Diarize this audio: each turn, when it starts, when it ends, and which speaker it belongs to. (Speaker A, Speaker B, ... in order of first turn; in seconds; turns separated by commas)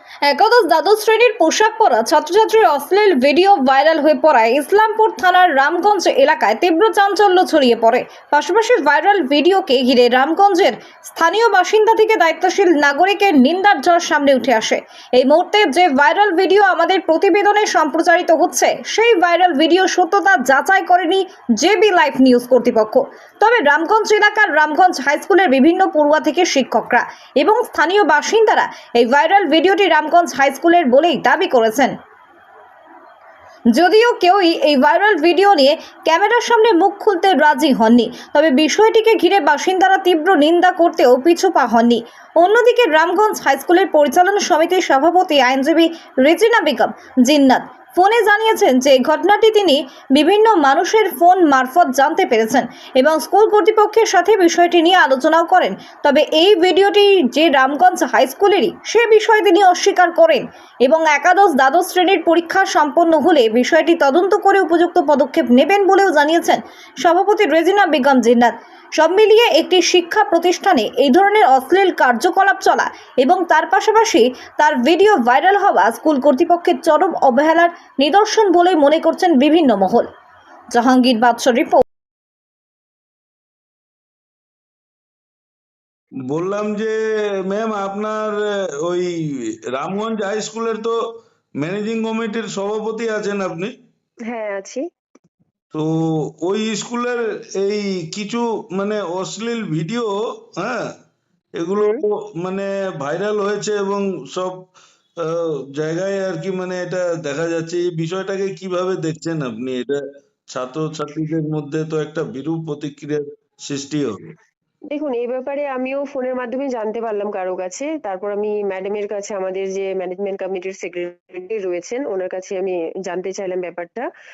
Speaker A: 0.2-31.9, Speaker A: 33.8-80.1, Speaker A: 80.7-81.8, Speaker B: 86.3-87.0, Speaker B: 87.5-89.1, Speaker B: 89.7-91.0, Speaker B: 91.6-93.7, Speaker C: 94.2-94.8, Speaker B: 96.4-100.9, Speaker B: 101.6-104.7, Speaker C: 101.8-102.0, Speaker B: 105.2-110.0, Speaker B: 110.5-114.3, Speaker C: 114.9-124.1